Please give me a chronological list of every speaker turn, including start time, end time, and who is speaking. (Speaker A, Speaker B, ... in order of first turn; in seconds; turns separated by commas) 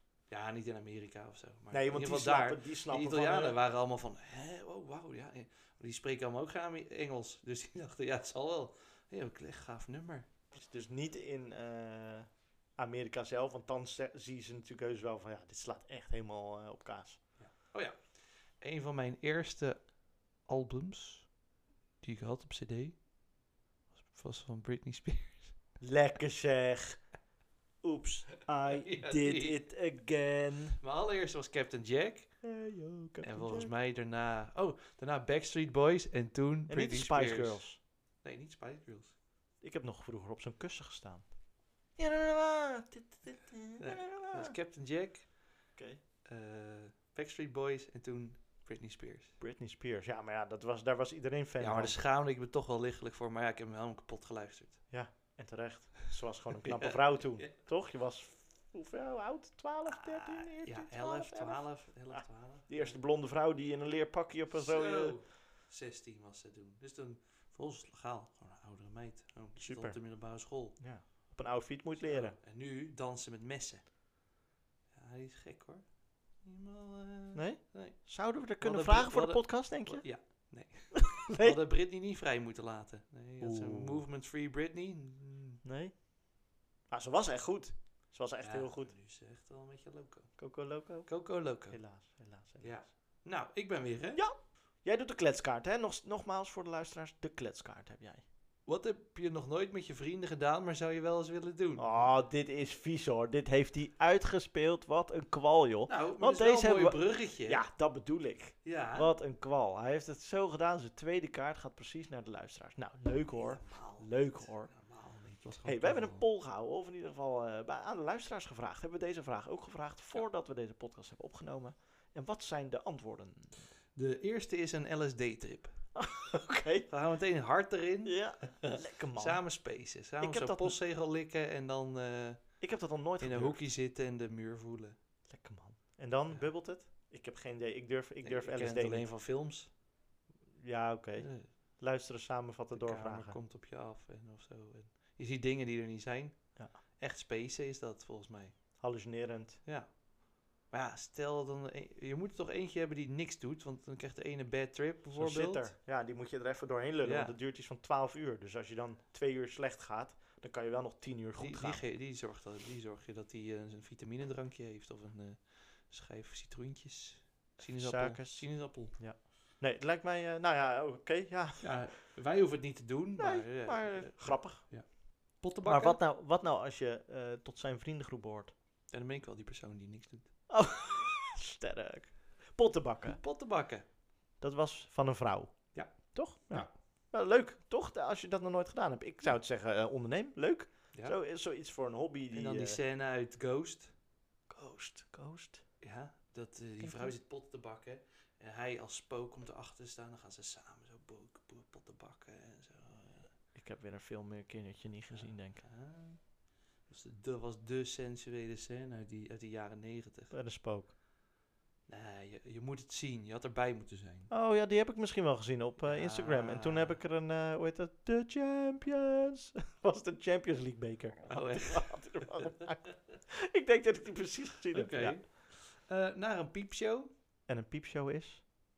Speaker A: 0.3-10.3, Speaker B: 1.7-3.6, Speaker B: 10.5-17.2, Speaker A: 17.4-19.9, Speaker A: 20.4-21.3, Speaker A: 22.0-23.0, Speaker A: 24.0-25.6, Speaker B: 25.8-27.0, Speaker B: 27.8-30.8, Speaker A: 28.7-29.6, Speaker A: 30.8-32.3, Speaker B: 32.4-33.7, Speaker A: 33.2-37.6, Speaker B: 36.7-37.8, Speaker A: 38.2-39.1, Speaker B: 39.6-41.3, Speaker B: 42.0-44.5, Speaker A: 43.8-45.3, Speaker B: 45.8-46.0, Speaker A: 46.2-49.3, Speaker B: 49.4-52.0, Speaker A: 51.6-54.8, Speaker B: 54.9-65.2, Speaker A: 56.6-57.5, Speaker A: 59.9-63.0, Speaker A: 64.5-70.8, Speaker B: 69.6-70.0, Speaker B: 70.8-72.4, Speaker A: 72.0-73.9, Speaker A: 74.9-75.9, Speaker A: 76.4-78.1, Speaker B: 77.3-80.0, Speaker A: 78.6-85.6, Speaker B: 81.0-81.6, Speaker B: 83.4-84.0, Speaker B: 85.6-85.9, Speaker B: 86.9-88.9, Speaker A: 88.4-90.3, Speaker B: 90.4-91.1, Speaker A: 91.1-91.8, Speaker B: 91.7-92.8, Speaker A: 92.6-94.2, Speaker B: 94.2-98.2, Speaker A: 98.7-102.1, Speaker B: 101.8-114.7, Speaker A: 105.9-107.6, Speaker A: 108.6-109.1, Speaker A: 113.3-116.2, Speaker B: 115.6-123.7, Speaker A: 123.9-125.7, Speaker B: 125.9-126.9, Speaker A: 126.9-132.4, Speaker B: 128.0-129.4, Speaker B: 130.2-130.8, Speaker B: 132.6-133.6, Speaker A: 133.2-134.9, Speaker B: 135.3-139.1, Speaker A: 138.2-139.7, Speaker B: 140.6-143.4, Speaker A: 141.2-141.5, Speaker A: 142.7-148.5, Speaker B: 148.8-149.6, Speaker A: 149.6-150.0, Speaker A: 150.7-155.7, Speaker B: 155.1-161.8, Speaker A: 157.0-157.3, Speaker A: 161.4-168.9, Speaker B: 167.7-171.9, Speaker A: 171.6-176.0, Speaker B: 173.2-174.7, Speaker B: 175.6-178.5, Speaker A: 178.9-180.3, Speaker B: 180.5-183.2, Speaker A: 183.1-183.8, Speaker B: 184.4-192.8, Speaker A: 192.3-193.9, Speaker B: 194.5-195.6, Speaker A: 195.8-203.3, Speaker B: 196.8-197.1, Speaker B: 203.5-205.6, Speaker A: 205.1-206.3, Speaker A: 206.9-210.3, Speaker B: 210.3-210.9, Speaker A: 211.9-214.3, Speaker B: 214.3-225.2, Speaker A: 215.8-217.0, Speaker A: 221.3-222.6, Speaker A: 224.7-227.1, Speaker B: 227.5-228.4